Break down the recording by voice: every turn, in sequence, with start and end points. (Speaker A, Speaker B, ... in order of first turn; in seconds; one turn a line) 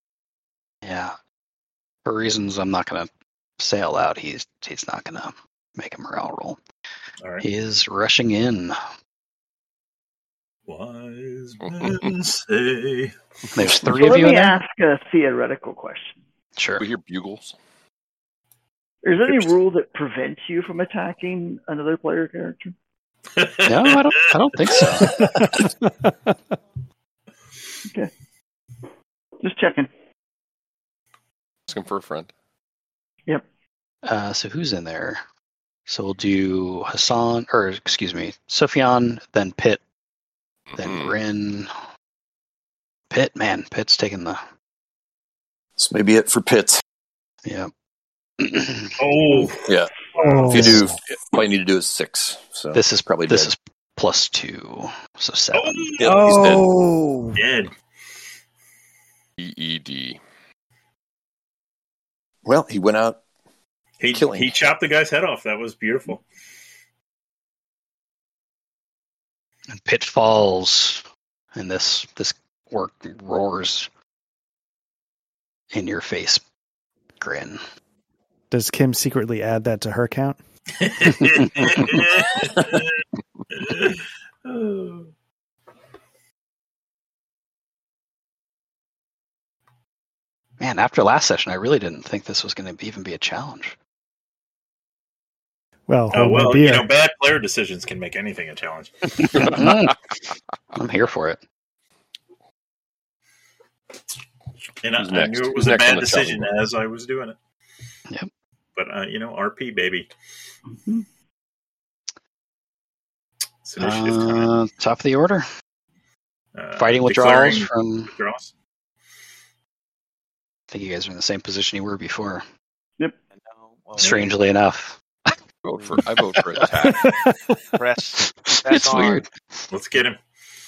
Speaker A: 0.8-1.1
Speaker A: 2.0-6.6
Speaker A: 7.4-8.8
Speaker B: 10.7-13.2
Speaker C: 11.6-12.1
Speaker A: 13.5-14.6
Speaker D: 13.8-16.2
Speaker A: 16.6-16.8
Speaker C: 16.8-17.6
Speaker D: 19.0-22.7
Speaker B: 23.4-25.2
Speaker A: 23.6-25.2
Speaker E: 25.0-26.3
Speaker D: 27.8-28.1
Speaker D: 29.4-29.9
Speaker C: 31.7-32.3
Speaker A: 34.0-35.2
Speaker A: 35.9-39.8
Speaker C: 40.7-41.1
Speaker A: 40.8-41.7
Speaker A: 43.1-44.4
Speaker F: 45.8-46.8
Speaker A: 47.4-47.7
Speaker A: 48.4-49.0
Speaker B: 49.0-50.8
Speaker E: 50.2-50.8
Speaker F: 50.5-53.5
Speaker A: 52.7-56.0
Speaker B: 55.5-56.7
Speaker F: 56.0-56.6
Speaker E: 56.1-57.4
Speaker B: 57.3-57.7
Speaker C: 59.4-60.2
Speaker F: 62.4-63.2
Speaker B: 64.0-66.2
Speaker F: 64.1-64.5
Speaker A: 69.7-73.9
Speaker A: 75.7-76.4
Speaker A: 77.2-77.6
Speaker E: 78.5-80.4
Speaker B: 80.8-82.9
Speaker A: 81.4-81.9
Speaker B: 83.5-85.1
Speaker A: 90.6-93.8
Speaker E: 95.9-96.9
Speaker B: 96.1-99.5
Speaker A: 99.2-100.0
Speaker C: 99.3-99.9
Speaker A: 100.7-101.4
Speaker B: 104.8-107.3
Speaker C: 105.0-106.5
Speaker B: 108.8-110.1
Speaker D: 110.8-111.0
Speaker B: 113.6-114.5
Speaker A: 113.8-115.4
Speaker B: 116.5-118.5
Speaker A: 116.8-118.1
Speaker A: 120.7-122.5
Speaker G: 123.3-124.3
Speaker A: 124.0-125.0
Speaker B: 124.0-124.3
Speaker C: 125.6-127.2
Speaker G: 127.8-129.2
Speaker A: 128.5-129.6
Speaker B: 129.7-130.2